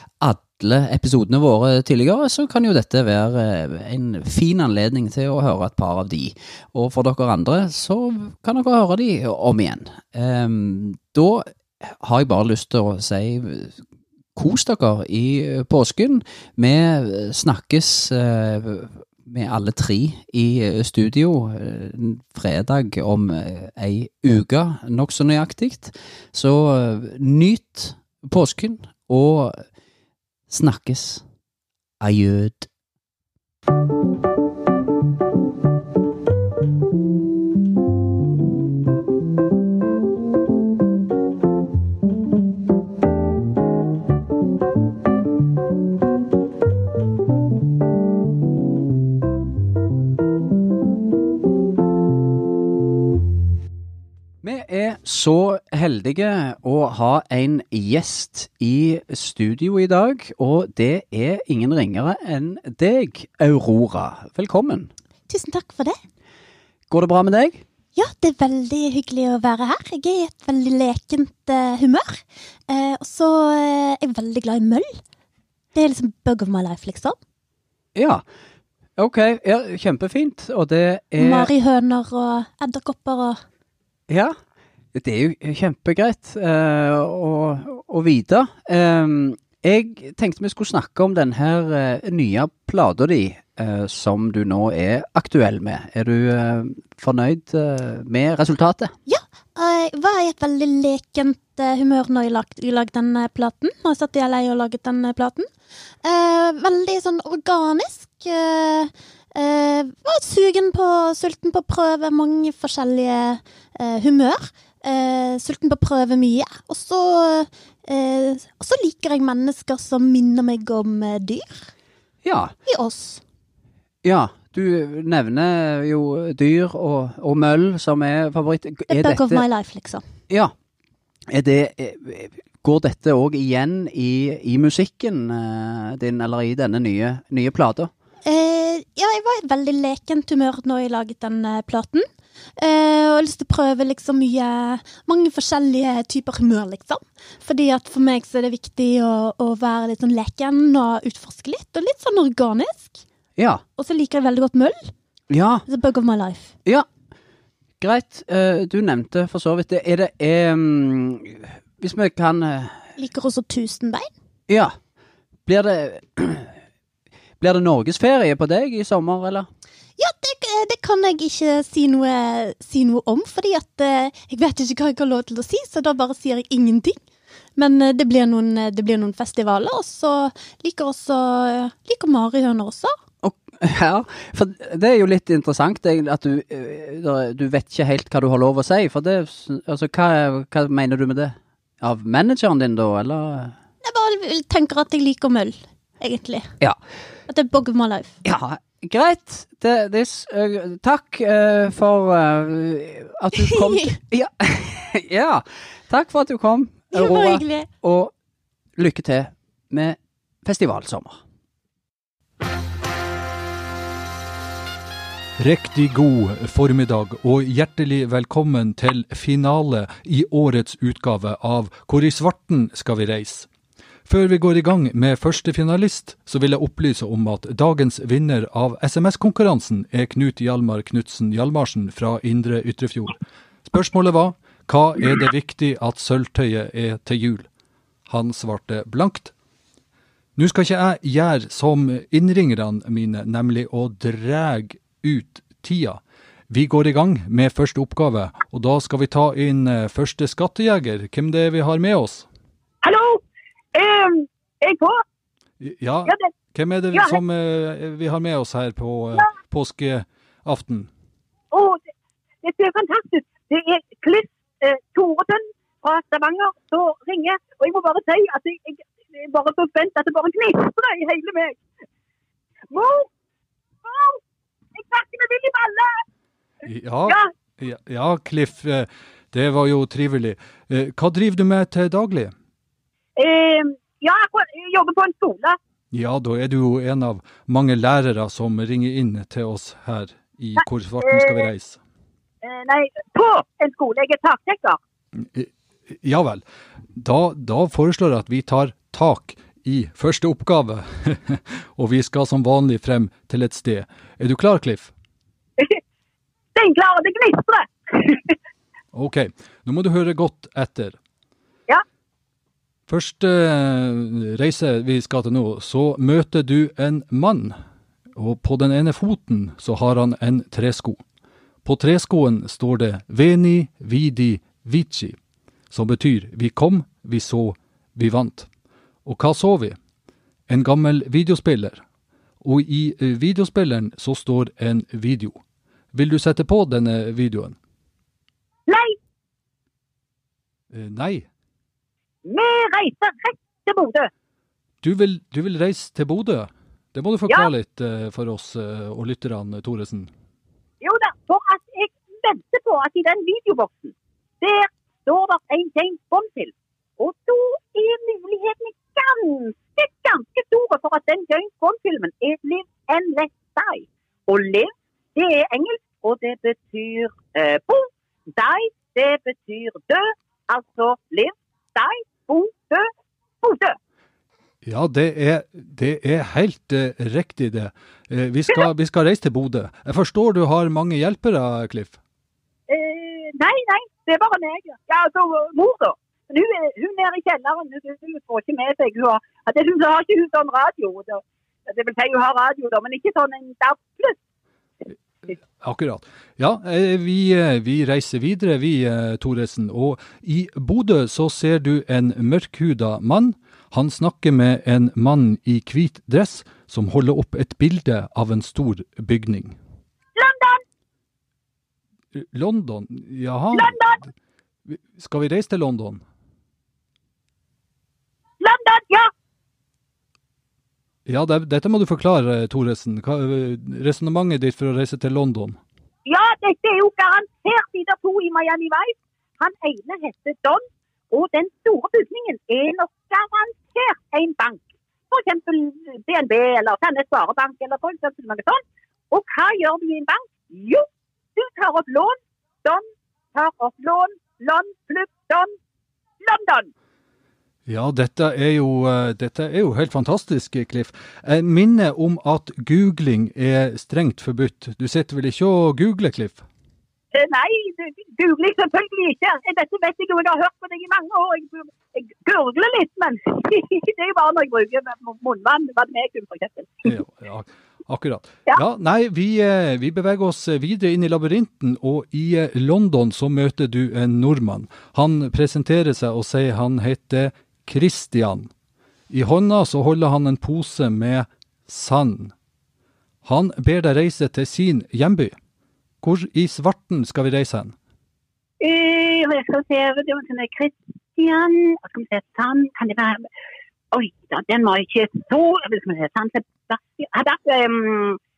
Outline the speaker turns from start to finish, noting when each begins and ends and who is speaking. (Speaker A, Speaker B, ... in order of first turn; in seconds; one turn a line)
Speaker A: 0.2-13.8
Speaker A: 14.4-29.6
Speaker A: 30.5-31.2
Speaker A: 32.0-32.7
Speaker A: 54.4-64.9
Speaker B: 65.3-66.0
Speaker A: 66.9-67.6
Speaker B: 68.0-75.0
Speaker B: 75.8-77.2
Speaker A: 77.9-78.2
Speaker A: 79.0-81.5
Speaker B: 81.2-83.4
Speaker A: 84.1-84.3
Speaker A: 84.9-98.9
Speaker B: 99.1-105.5
Speaker B: 106.0-121.7
Speaker A: 122.2-122.5
Speaker B: 122.7-123.2
Speaker A: 124.0-129.4
Speaker B: 128.9-130.0
Speaker A: 131.3-137.9
Speaker B: 138.2-142.1
Speaker B: 142.6-153.0
Speaker A: 153.4-153.6
Speaker B: 153.8-154.9
Speaker A: 155.3-155.7
Speaker B: 155.7-156.5
Speaker A: 157.8-162.9
Speaker B: 163.0-164.1
Speaker A: 164.5-164.7
Speaker A: 165.5-166.6
Speaker A: 167.4-169.5
Speaker B: 170.0-177.0
Speaker B: 177.6-182.9
Speaker A: 183.2-193.6
Speaker B: 193.8-196.5
Speaker B: 197.3-198.2
Speaker A: 198.2-208.1
Speaker B: 203.4-203.9
Speaker B: 206.9-207.7
Speaker A: 208.8-211.2
Speaker C: 215.4-223.5
Speaker C: 224.1-233.2
Speaker C: 233.7-237.5
Speaker C: 238.1-239.3
Speaker C: 240.4-252.3
Speaker D: 253.8-254.9
Speaker C: 255.6-260.9
Speaker D: 261.5-261.8
Speaker D: 262.4-271.6
Speaker D: 272.7-273.0
Speaker D: 273.9-274.1
Speaker D: 274.8-275.9
Speaker C: 276.6-282.3
Speaker D: 283.2-285.6
Speaker C: 285.9-291.8
Speaker D: 291.0-291.4
Speaker D: 292.4-294.8
Speaker C: 295.2-295.5
Speaker C: 296.0-296.4
Speaker C: 297.0-304.9
Speaker D: 306.6-308.2
Speaker C: 308.9-311.0
Speaker C: 312.9-317.6
Speaker C: 318.2-321.0
Speaker C: 321.6-325.2
Speaker C: 325.7-328.5
Speaker C: 329.1-329.8
Speaker C: 330.5-331.8
Speaker C: 332.4-335.4
Speaker C: 335.9-337.6
Speaker C: 340.7-341.3
Speaker D: 342.3-344.1
Speaker C: 344.8-350.1
Speaker D: 350.8-372.9
Speaker D: 373.4-373.8
Speaker C: 374.6-382.0
Speaker D: 382.7-391.2
Speaker D: 391.7-394.1
Speaker C: 395.6-409.6
Speaker D: 410.2-410.6
Speaker C: 412.2-413.8
Speaker C: 414.7-416.0
Speaker D: 418.4-419.1
Speaker C: 421.1-425.6
Speaker D: 426.1-440.8
Speaker D: 441.4-442.8
Speaker D: 443.3-445.5
Speaker D: 446.2-446.7
Speaker C: 447.7-456.4
Speaker D: 457.2-466.6
Speaker C: 466.9-478.5
Speaker C: 479.1-482.3
Speaker C: 483.2-485.4
Speaker C: 486.0-487.8
Speaker D: 488.6-493.2
Speaker D: 493.9-498.2